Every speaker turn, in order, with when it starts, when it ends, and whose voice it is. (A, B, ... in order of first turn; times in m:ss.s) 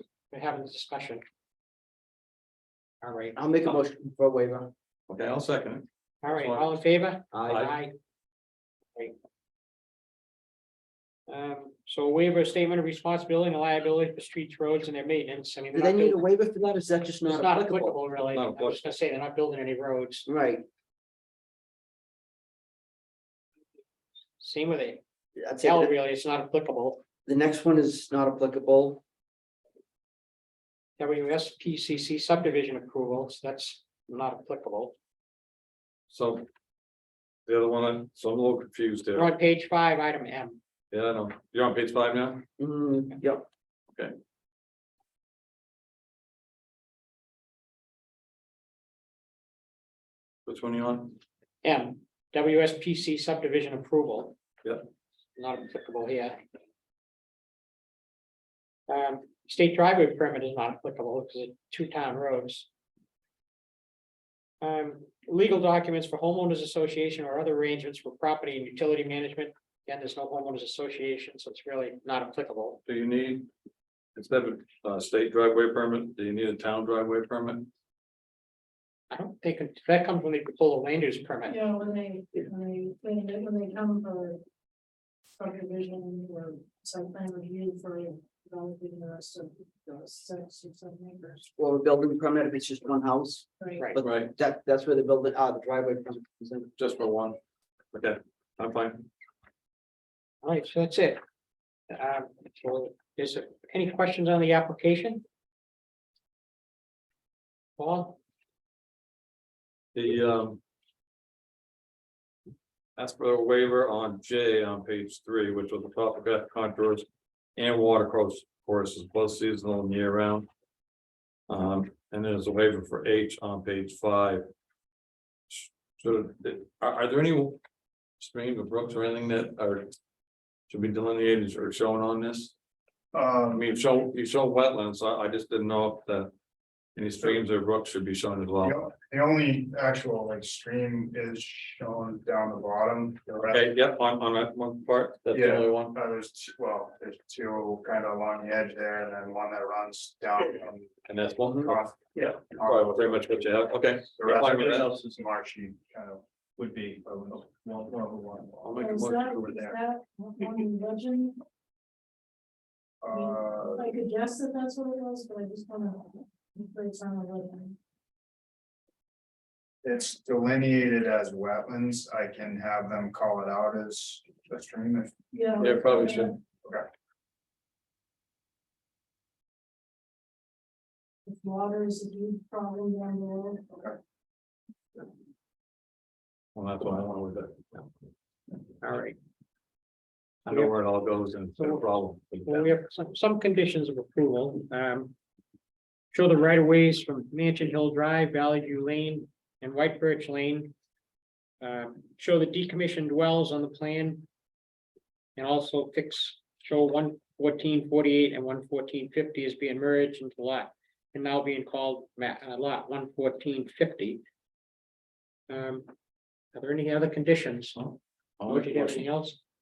0:00.3-0:01.2 A
0:03.0-0:03.4 A
0:03.4-0:04.7 B
0:05.1-0:06.8 C
0:06.2-0:07.9 A
0:07.3-0:07.7 B
0:07.5-0:07.7 C
0:11.3-0:16.2 A
0:15.7-0:18.0 B
0:17.3-0:20.3 A
0:18.3-0:18.8 C
0:20.3-0:20.7 B
0:24.4-0:25.0 A
0:25.4-0:25.9 B
0:25.6-0:27.0 A
0:27.3-0:29.0 B
0:31.0-0:34.9 A
0:36.1-0:36.5 C
0:37.5-0:39.3 C
0:39.2-0:40.6 A
0:40.9-0:42.4 C
0:42.6-0:43.5 B
0:50.5-0:51.2 C
0:51.6-0:54.4 A
0:55.4-0:56.4 A
0:58.9-1:02.7 A
1:04.6-1:12.8 A
1:12.8-1:13.5 C
1:14.2-1:17.7 C
1:19.1-1:21.6 A
1:21.5-1:24.4 D
1:25.4-1:31.5 D
1:31.6-1:36.7 B
1:34.0-1:34.3 C
1:36.8-1:37.4 C
1:37.9-1:39.1 C
1:40.4-1:41.2 A
1:41.9-1:45.2 A
1:47.8-1:48.2 A
1:49.9-1:50.6 C
1:53.0-1:57.0 C
1:57.6-2:00.5 C
2:01.5-2:04.4 C
2:05.5-2:07.6 C
2:08.2-2:09.9 C
2:10.7-2:12.5 C
2:13.1-2:13.7 E
2:13.5-2:16.3 C
2:17.0-2:18.8 C
2:18.6-2:23.7 E
2:23.5-2:26.0 C
2:25.3-2:30.9 E
2:31.1-2:34.9 C
2:31.5-2:33.5 E
2:34.2-2:38.7 E
2:38.6-2:39.6 C
2:38.8-2:41.4 D
2:43.0-2:43.9 E
2:43.1-2:47.8 D
2:49.8-2:55.9 E
2:55.3-2:56.4 D
2:55.6-2:56.4 C
3:01.3-3:03.8 D
3:06.6-3:07.9 C
3:08.8-3:09.2 A
3:10.4-3:12.7 C
3:10.5-3:10.7 A
3:11.6-3:11.8 A
3:12.5-3:15.1 A
3:16.1-3:20.7 A
3:21.6-3:24.3 A
3:25.4-3:34.2 A
3:35.5-3:35.9 A
3:36.5-3:37.8 A
3:37.8-3:39.1 C
3:38.5-3:39.4 A